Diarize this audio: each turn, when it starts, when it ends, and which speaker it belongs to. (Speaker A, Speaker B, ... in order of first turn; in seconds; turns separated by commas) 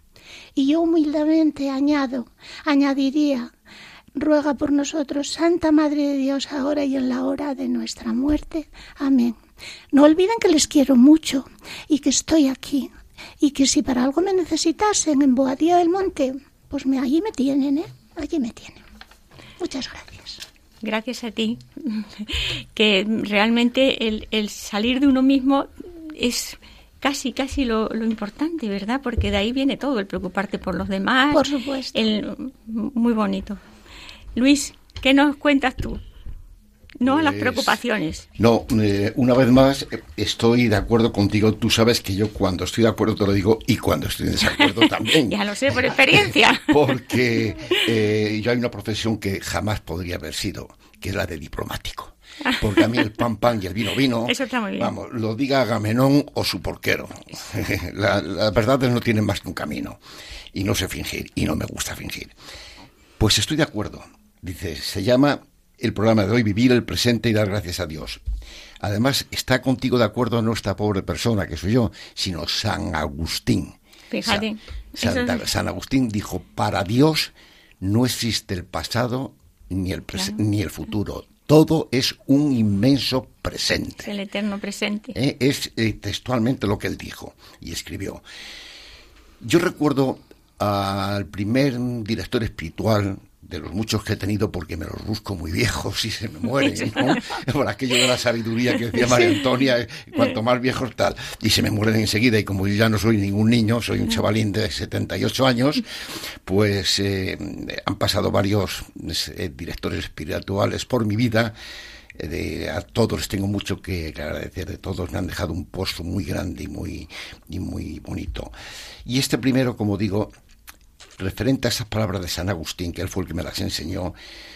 Speaker A: 0.6-3.5, Speaker A: 4.2-9.4, Speaker A: 9.9-12.9, Speaker A: 13.4-18.8, Speaker A: 19.6-20.4, Speaker B: 20.8-33.6, Speaker A: 31.3-31.9, Speaker B: 34.4-36.0, Speaker B: 37.0-38.3, Speaker C: 37.0-37.8, Speaker C: 38.4-60.0, Speaker B: 44.6-47.0, Speaker B: 52.5-53.1, Speaker B: 54.2-54.9, Speaker C: 60.5-62.3, Speaker C: 63.2-68.2, Speaker C: 68.8-74.5, Speaker B: 74.1-75.5, Speaker C: 75.0-84.1, Speaker B: 84.0-85.2, Speaker C: 85.1-88.2, Speaker C: 89.4-105.9, Speaker C: 106.5-111.5, Speaker C: 112.2-118.5, Speaker C: 119.0-120.3, Speaker C: 121.2-124.2